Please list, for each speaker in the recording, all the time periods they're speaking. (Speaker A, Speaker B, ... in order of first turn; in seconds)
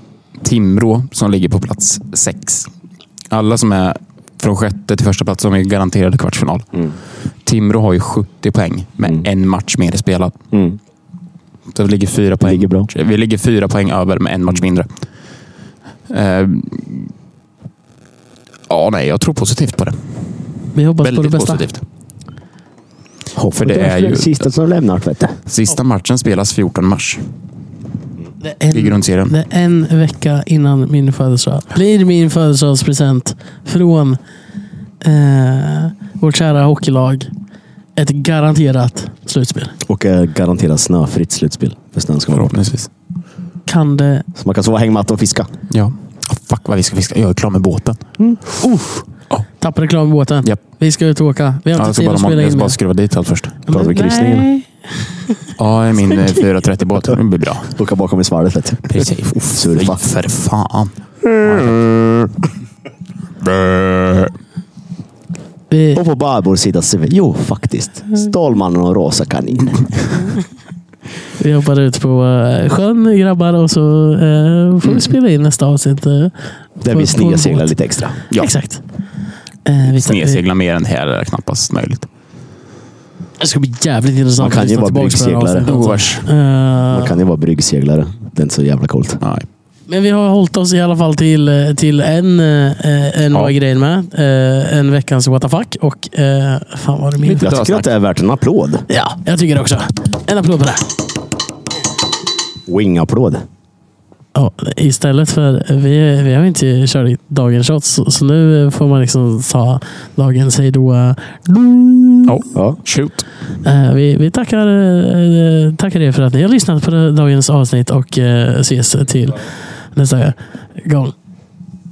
Speaker A: 0.4-2.7, 3.3-6.9, 7.4-10.3, 11.7-14.9, 16.1-17.1, 18.7-20.0, 21.0-21.8, 23.5-24.4, 25.5-27.2, 28.7-29.4, 42.3-42.9, 45.7-48.0, 51.8-53.6, 55.6-57.7, 58.9-61.8, 63.4-64.3, 79.8-82.1, 85.7-86.2, 89.2-89.5, 97.2-97.9, 112.2-113.2
Speaker B: 10.5-10.8, 12.4-12.9, 23.4-25.4, 39.9-42.6, 44.4-45.5, 53.7-54.5, 57.8-60.0, 61.2-62.3, 65.9-69.9, 76.8-78.2, 84.4-85.7, 86.9-89.2, 97.4-98.9, 102.7-103.4, 112.5-112.8
Speaker C: 20.8-21.7, 28.4-34.2, 35.0-37.3, 38.0-39.8, 43.7-44.2, 48.6-49.1, 49.6-52.8, 53.7-55.5, 65.7-66.0, 71.4-77.7, 78.3-78.8, 79.6-80.4, 83.4-87.2, 89.9-97.5, 98.9-100.9, 104.3-112.3, 113.6-121.1